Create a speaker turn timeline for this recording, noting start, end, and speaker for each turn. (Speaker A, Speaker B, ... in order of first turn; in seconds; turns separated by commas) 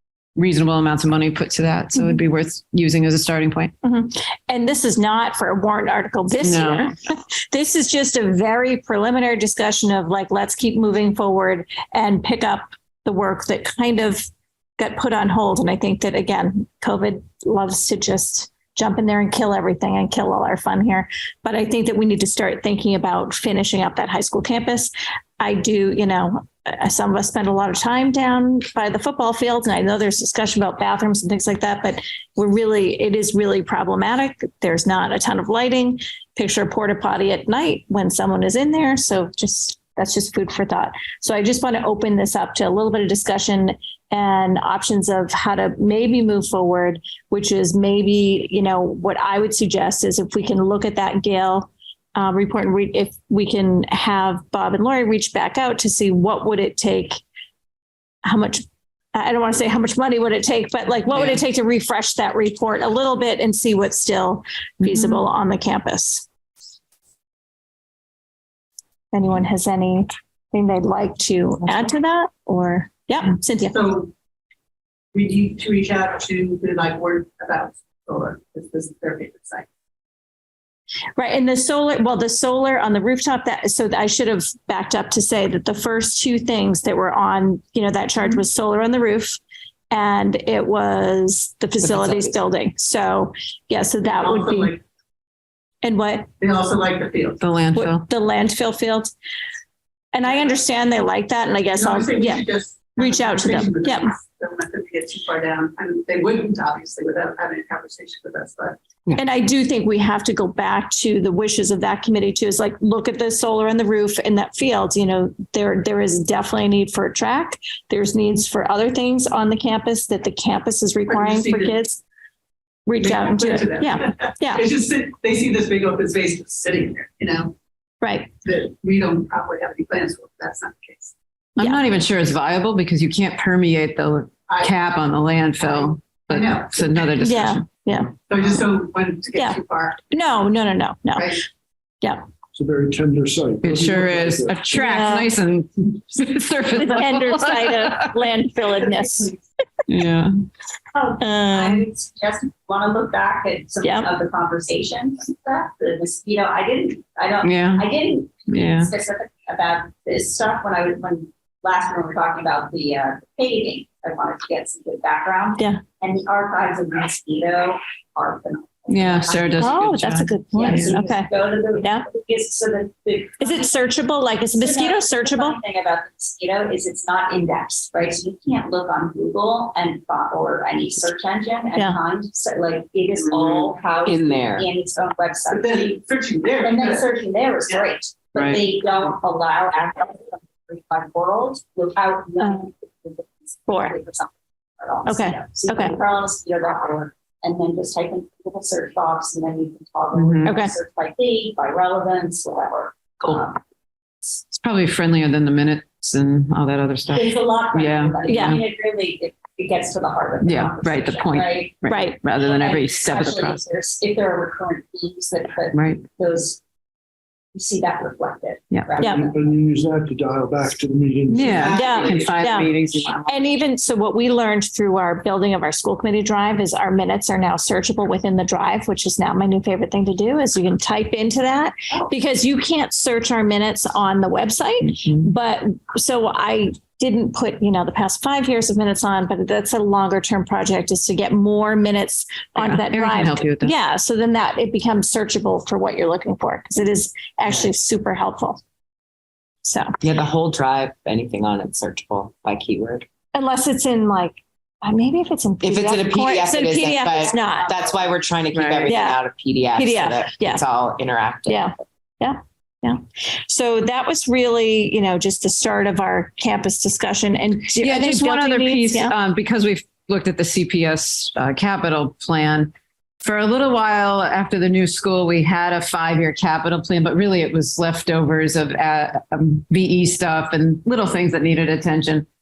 Speaker A: 0.3-3.7, Speaker B: 3.8-14.2, Speaker A: 6.4-6.9, Speaker B: 14.8-57.2, Speaker B: 58.2-58.6, Speaker B: 59.1-66.2, Speaker A: 61.1-61.4, Speaker A: 64.8-65.2, Speaker B: 69.1-73.8, Speaker C: 73.7-74.1, Speaker C: 75.1-79.7, Speaker B: 81.2-89.4, Speaker B: 89.9-94.7, Speaker D: 91.8-92.3, Speaker C: 94.0-94.8, Speaker B: 95.8-96.3, Speaker C: 96.4-97.4, Speaker A: 97.4-98.0, Speaker B: 97.8-99.1, Speaker B: 100.1-102.5, Speaker C: 101.7-108.8, Speaker B: 103.0-104.1, Speaker B: 109.1-122.0, Speaker C: 121.0-121.8, Speaker B: 122.9-124.6, Speaker C: 123.0-127.5, Speaker B: 128.0-128.3, Speaker C: 128.4-131.1, Speaker A: 131.6-137.7, Speaker C: 134.5-134.7, Speaker C: 135.8-137.1, Speaker B: 137.2-138.1, Speaker C: 138.2-140.0, Speaker B: 140.1-141.3, Speaker E: 142.5-144.7, Speaker A: 143.6-148.1, Speaker B: 144.7-145.3, Speaker B: 146.7-149.3, Speaker A: 149.9-150.3, Speaker F: 150.9-173.8, Speaker B: 151.2-151.9, Speaker B: 153.8-154.1, Speaker A: 157.4-157.8, Speaker A: 158.5-158.9, Speaker A: 168.9-170.9, Speaker B: 169.6-171.3, Speaker B: 173.4-175.6, Speaker F: 174.5-186.0, Speaker D: 183.3-184.7, Speaker C: 185.5-187.2, Speaker F: 186.6-203.6, Speaker B: 193.7-193.9, Speaker B: 195.1-195.9, Speaker A: 200.1-200.6, Speaker B: 200.4-200.7, Speaker A: 204.5-208.6, Speaker F: 207.1-216.6, Speaker B: 208.2-208.6, Speaker A: 210.4-213.6, Speaker B: 211.9-212.2, Speaker A: 215.7-216.0, Speaker F: 217.5-219.6, Speaker E: 219.0-221.7, Speaker B: 219.0-219.2, Speaker A: 221.3-223.2, Speaker D: 221.4-222.7, Speaker B: 221.6-248.6, Speaker A: 242.6-243.7, Speaker B: 249.6-249.9, Speaker D: 250.0-253.0, Speaker B: 253.3-257.8, Speaker D: 255.6-261.7, Speaker F: 257.0-258.2, Speaker A: 258.5-258.9, Speaker B: 258.9-259.2, Speaker B: 259.7-260.6, Speaker B: 261.4-269.1, Speaker A: 267.8-282.3